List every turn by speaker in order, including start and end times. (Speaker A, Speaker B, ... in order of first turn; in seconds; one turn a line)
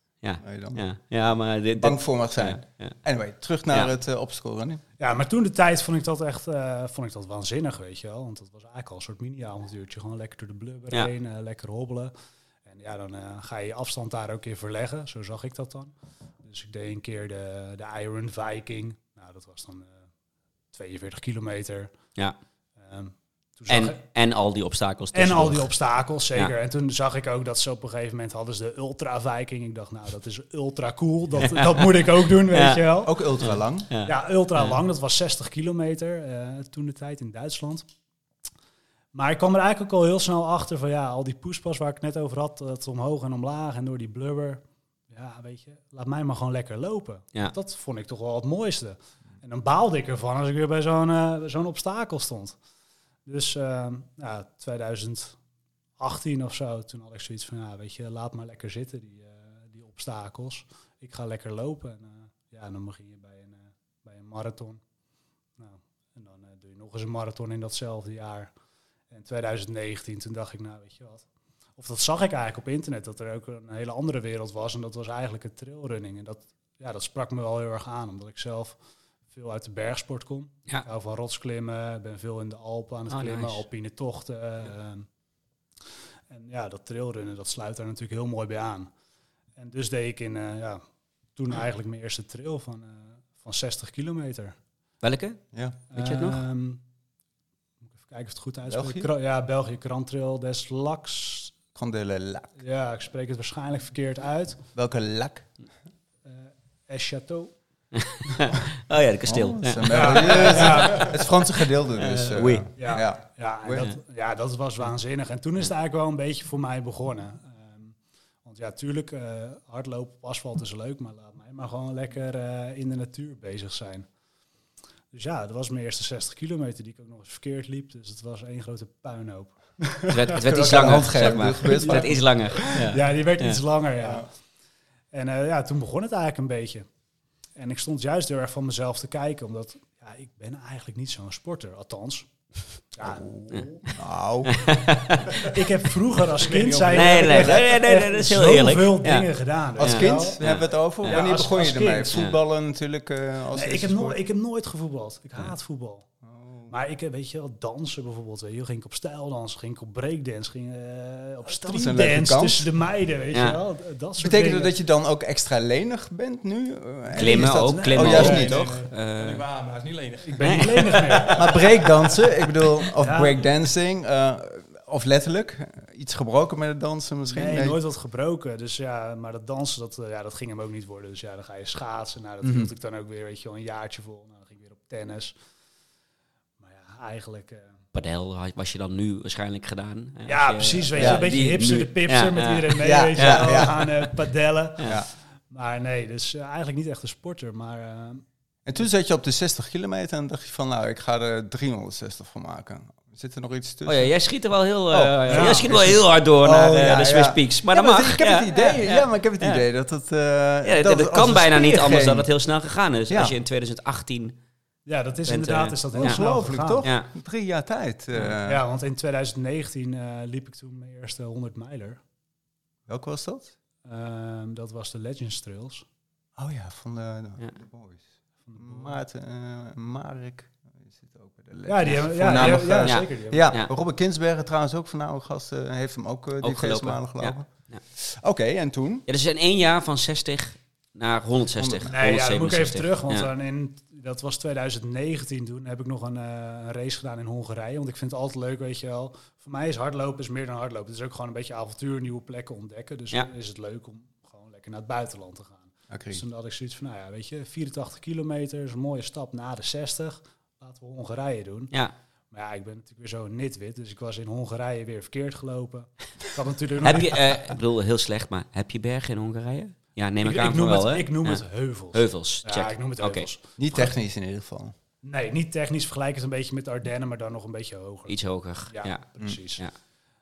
Speaker A: 0.2-2.9
Speaker B: 0.4-0.8
Speaker B: 1.8-4.8
Speaker C: 5.0-12.1
Speaker C: 12.7-15.9
Speaker C: 16.4-19.9
Speaker C: 20.7-21.9
Speaker C: 22.8-24.0
Speaker A: 23.7-25.7
Speaker C: 25.1-33.1
Speaker A: 31.4-32.8
Speaker B: 33.0-33.9
Speaker A: 33.4-34.8
Speaker C: 34.0-37.9
Speaker C: 39.1-52.5
Speaker C: 53.2-55.4
Speaker C: 56.0-64.8
Speaker C: 65.6-68.5
Speaker C: 69.1-71.2
Speaker C: 71.8-78.8
Speaker C: 79.3-85.0
Speaker A: 83.1-83.6
Speaker C: 86.3-88.9
Speaker C: 89.6-90.8
Speaker C: 91.3-94.5
Speaker A: 95.0-95.4
Speaker C: 95.9-96.8
Speaker A: 95.9-96.4
Speaker C: 98.0-101.5
Speaker B: 98.7-99.1
Speaker B: 101.7-102.5
Speaker C: 102.6-104.6
Speaker B: 104.7-105.5
Speaker C: 106.2-107.5
Speaker A: 107.9-110.7
Speaker B: 109.3-113.8
Speaker C: 109.8-111.2
Speaker A: 112.0-112.7
Speaker C: 112.8-117.9
Speaker C: 118.4-124.1
Speaker C: 125.1-134.3
Speaker A: 130.1-133.6
Speaker B: 130.5-132.2
Speaker C: 135.1-136.9
Speaker C: 137.6-142.3
Speaker C: 142.9-143.8
Speaker B: 143.0-143.3
Speaker B: 143.9-144.7
Speaker A: 144.4-145.4
Speaker C: 145.3-150.4
Speaker D: 146.5-147.5
Speaker A: 146.9-149.3
Speaker B: 147.3-147.6
Speaker B: 149.8-154.2
Speaker A: 149.8-151.2
Speaker C: 151.0-152.2
Speaker C: 153.5-156.1
Speaker B: 156.2-156.7
Speaker C: 156.7-164.8
Speaker B: 161.5-162.7
Speaker A: 163.3-163.6
Speaker B: 164.2-168.6
Speaker C: 167.1-168.6
Speaker A: 167.1-169.4
Speaker D: 168.0-172.2
Speaker C: 170.3-171.5
Speaker A: 170.4-171.0
Speaker B: 171.3-177.8
Speaker C: 172.9-173.4
Speaker C: 177.3-185.3
Speaker B: 182.4-182.7
Speaker C: 186.6-187.7
Speaker A: 187.9-194.1
Speaker C: 190.2-198.2
Speaker B: 190.9-191.2
Speaker B: 192.8-193.8
Speaker B: 198.7-204.1
Speaker A: 203.9-209.6
Speaker B: 204.9-212.3
Speaker C: 205.3-205.7
Speaker A: 210.6-214.3
Speaker B: 213.1-213.3
Speaker C: 214.8-216.9
Speaker A: 215.2-216.2
Speaker B: 215.9-218.6
Speaker A: 216.8-217.1
Speaker C: 218.4-222.0
Speaker B: 222.9-223.5
Speaker C: 223.8-225.8
Speaker B: 226.4-228.0
Speaker C: 228.5-228.9
Speaker B: 228.6-239.1
Speaker C: 231.7-233.5
Speaker A: 232.8-233.7
Speaker A: 236.4-237.8
Speaker A: 239.1-243.3
Speaker B: 241.6-241.9
Speaker C: 241.9-261.7
Speaker B: 255.9-256.2
Speaker C: 262.3-267.5
Speaker A: 266.8-273.3
Speaker C: 270.2-273.5
Speaker B: 273.6-274.7
Speaker C: 275.0-278.1
Speaker A: 278.1-279.0
Speaker C: 278.7-279.6